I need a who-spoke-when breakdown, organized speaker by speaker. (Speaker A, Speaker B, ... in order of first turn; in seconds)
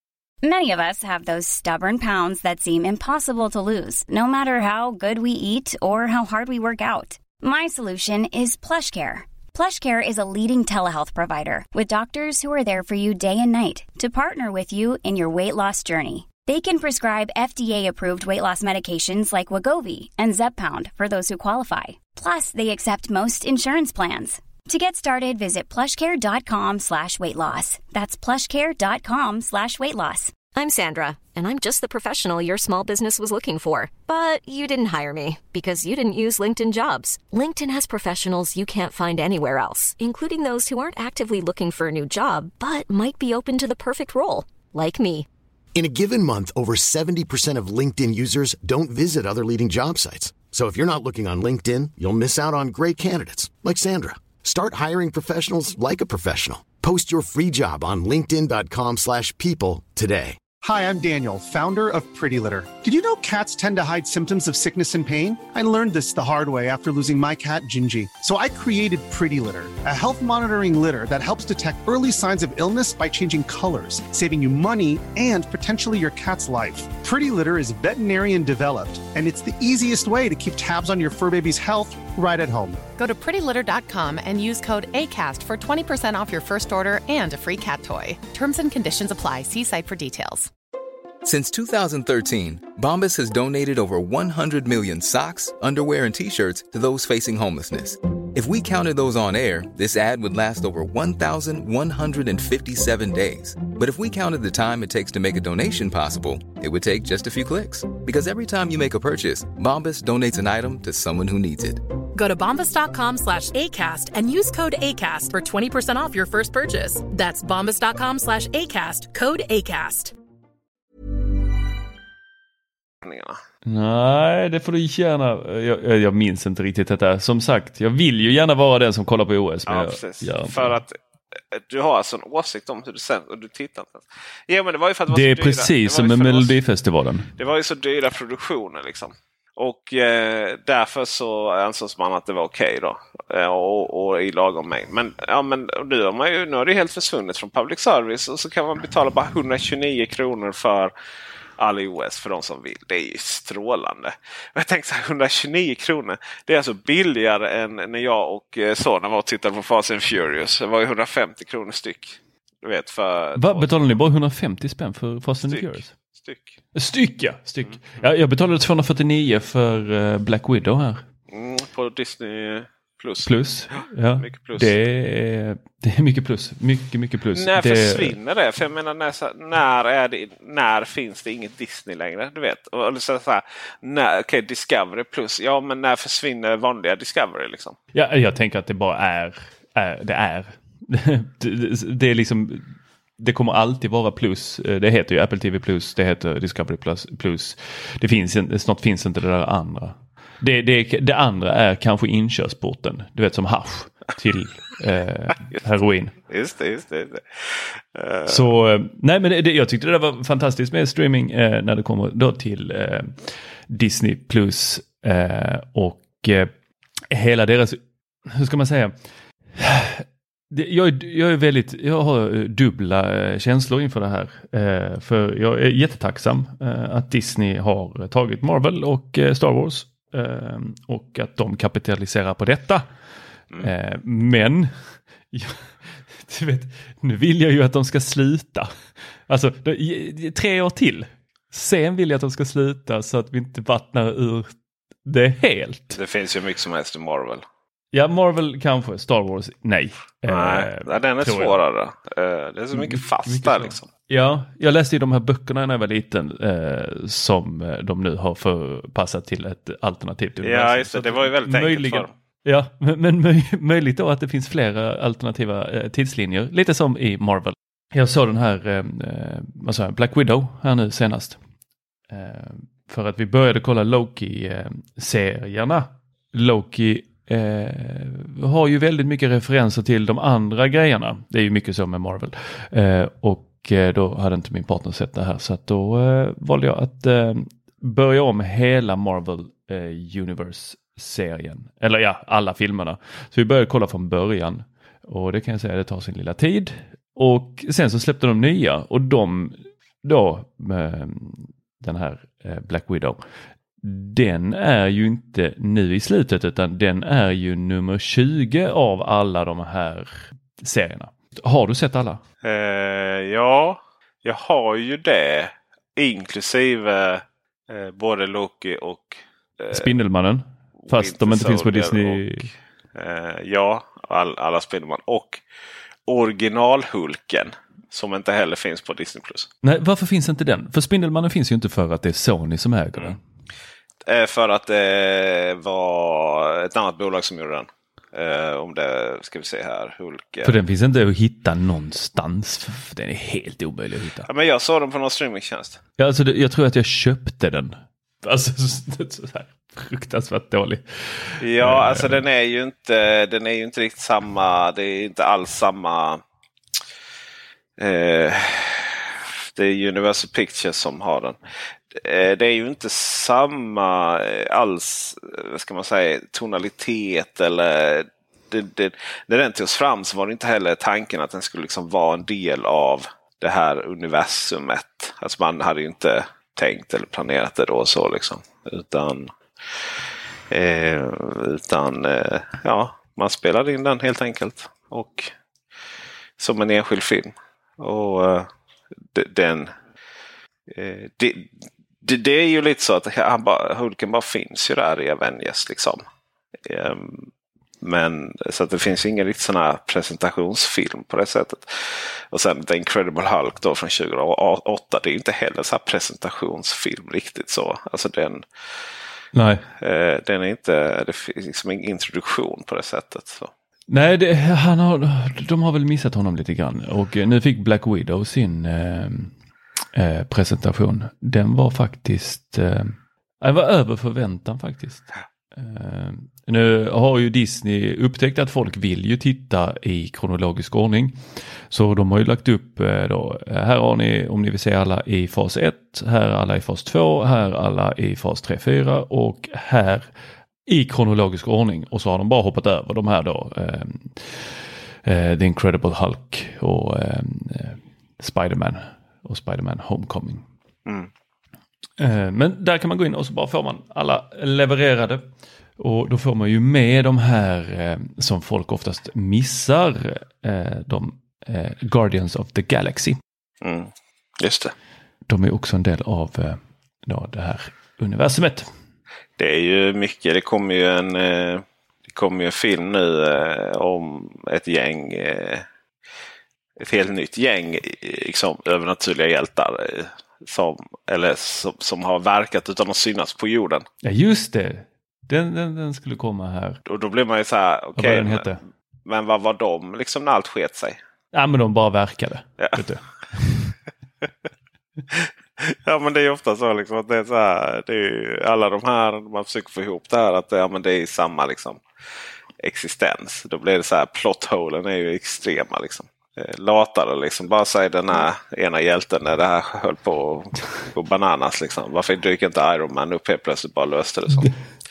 Speaker A: 0.4-30.3
Speaker B: 30.5-45.3
Speaker C: 45.8-60.4
Speaker D: 60.6-82.8
Speaker E: 83.0-90.5
Speaker F: 91.2-111.8
Speaker G: 112.1-120.1
Speaker H: 123.0-123.4, 129.7-131.0, 131.5-136.6, 137.4-150.9, 151.6-163.8, 165.4-166.6, 171.3-173.3, 174.2-174.7, 177.3-187.8, 206.3-208.5, 245.9-247.4, 250.3-253.9, 260.4-262.1, 312.4-319.9, 320.8-325.4, 326.1-329.5, 334.1-340.6, 344.3-345.8, 351.4-356.2, 357.8-361.4, 361.9-379.3, 380.5-385.3, 386.4-388.5, 389.1-389.7, 390.7-396.0, 396.7-397.3, 397.8-408.5, 409.8-413.5, 463.6-464.7, 469.4-475.7, 476.8-483.9, 486.9-488.6, 489.1-491.0, 492.6-492.8, 495.1-501.8, 502.6-514.5
Speaker I: 123.7-130.8, 135.1-137.3, 163.4-165.9, 166.7-171.1, 173.2-178.2, 187.9-206.2, 208.3-216.5, 217.1-218.9, 219.6-232.9, 233.6-238.7, 239.3-246.0, 247.9-251.6, 252.7-271.4, 272.1-303.2, 303.8-312.2, 319.7-322.5, 329.6-333.2, 340.4-344.3, 346.0-352.2, 409.3-409.6, 413.9-419.3, 419.9-431.2, 431.7-440.1, 440.7-450.5, 452.0-463.2, 465.3-468.7, 484.0-486.8, 488.0-488.6, 491.3-493.8